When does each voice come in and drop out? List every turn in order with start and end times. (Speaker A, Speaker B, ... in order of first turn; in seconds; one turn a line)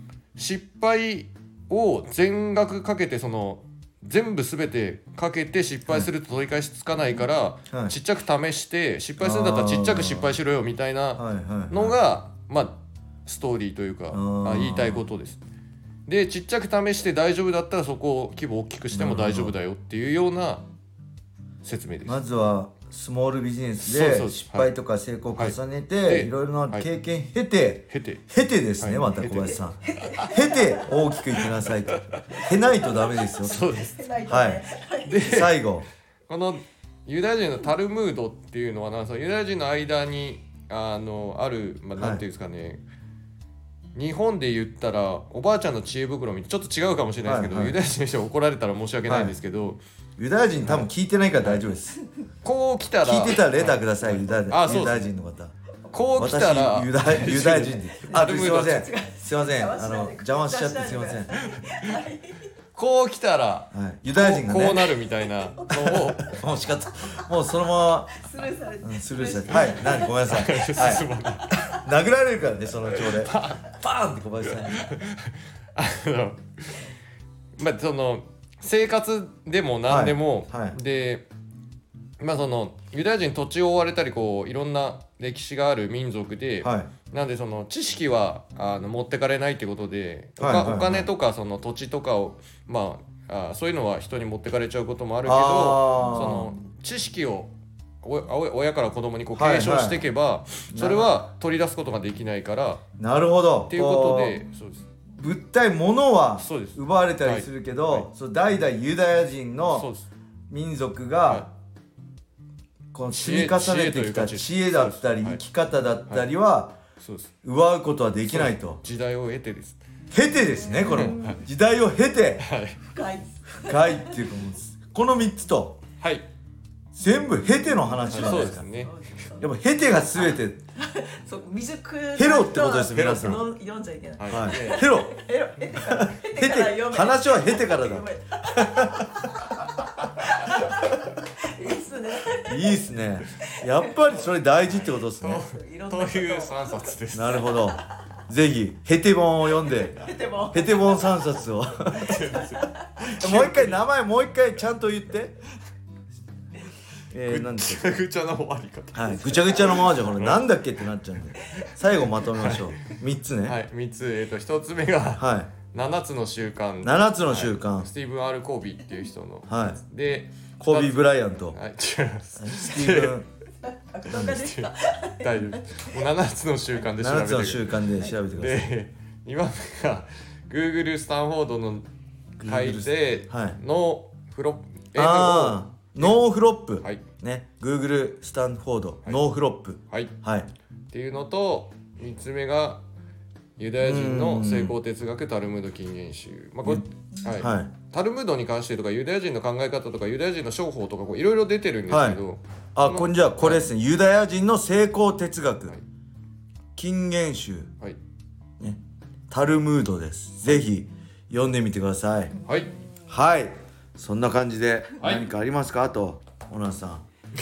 Speaker A: 0.4-15.4
Speaker B: 9.2-10.3
Speaker B: 11.2-12.0
Speaker B: 14.1-15.0
Speaker A: 16.1-20.7
Speaker B: 18.9-19.5
Speaker A: 21.6-22.2
Speaker B: 22.1-33.6
Speaker A: 23.8-24.7
Speaker A: 25.4-26.9
Speaker A: 27.9-28.2
Speaker A: 28.8-30.4
Speaker C: 29.9-30.8
Speaker A: 31.3-32.4
Speaker A: 33.3-34.0
Speaker C: 33.8-35.3
Speaker B: 34.2-34.7
Speaker A: 35.1-35.6
Speaker B: 35.2-35.9
Speaker A: 36.3-42.8
Speaker A: 44.0-49.8
Speaker B: 47.2-47.8
Speaker B: 49.1-49.4
Speaker B: 50.2-52.0
Speaker A: 50.6-50.9
Speaker A: 51.4-51.7
Speaker A: 52.4-55.1
Speaker B: 53.0-55.5
Speaker A: 55.9-58.9
Speaker B: 56.1-61.4
Speaker C: 58.0-62.5
Speaker A: 61.5-62.0
Speaker A: 62.8-66.4
Speaker B: 63.7-64.9
Speaker C: 65.4-66.0
Speaker B: 65.9-68.2
Speaker C: 68.2-70.2
Speaker B: 68.8-74.9
Speaker A: 69.5-71.5
Speaker A: 72.9-73.7
Speaker A: 74.4-76.9
Speaker A: 77.6-81.3
Speaker B: 79.9-80.8
Speaker A: 82.2-102.8
Speaker B: 86.6-86.9
Speaker B: 90.4-91.1
Speaker B: 95.2-96.6
Speaker B: 99.3-100.0
Speaker B: 100.7-101.2
Speaker B: 103.0-104.4
Speaker A: 103.7-104.9
Speaker B: 105.2-109.9
Speaker A: 106.4-108.1
Speaker A: 109.7-110.1
Speaker B: 110.5-111.5
Speaker B: 112.9-116.8
Speaker A: 113.1-115.4
Speaker A: 117.0-117.3
Speaker B: 117.4-118.8
Speaker A: 118.3-119.8
Speaker B: 120.1-122.5
Speaker C: 120.5-121.4
Speaker A: 120.9-121.4
Speaker A: 122.4-122.8
Speaker C: 122.8-124.2
Speaker B: 123.7-125.8
Speaker A: 126.0-126.3
Speaker B: 126.9-128.7
Speaker C: 127.8-129.5
Speaker A: 128.1-128.9
Speaker B: 129.4-130.6
Speaker C: 130.2-144.0
Speaker B: 132.1-133.4
Speaker A: 132.9-133.4
Speaker A: 134.2-134.9
Speaker B: 134.3-139.3
Speaker B: 142.4-145.4
Speaker A: 144.9-147.6
Speaker C: 145.4-146.9
Speaker B: 147.1-152.5
Speaker C: 149.6-151.3
Speaker A: 151.9-153.8
Speaker C: 152.5-152.9
Speaker B: 153.2-155.4
Speaker B: 157.1-157.9
Speaker A: 157.2-160.6
Speaker B: 158.9-163.6
Speaker A: 162.3-173.2
Speaker B: 165.2-165.5
Speaker B: 166.8-167.9
Speaker B: 169.5-169.8
Speaker B: 170.6-171.6
Speaker B: 172.4-173.3
Speaker C: 173.7-175.9
Speaker B: 174.1-174.4
Speaker A: 174.1-177.8
Speaker B: 177.0-178.7
Speaker A: 178.4-181.9
Speaker B: 182.4-183.6
Speaker A: 182.4-186.2
Speaker B: 184.9-190.5
Speaker A: 190.9-192.8
Speaker A: 193.6-203.7
Speaker B: 193.8-194.8
Speaker B: 197.3-197.7
Speaker B: 201.9-202.2
Speaker B: 202.8-205.7
Speaker B: 206.8-207.7
Speaker B: 209.3-212.3
Speaker B: 213.1-217.0
Speaker A: 215.0-215.3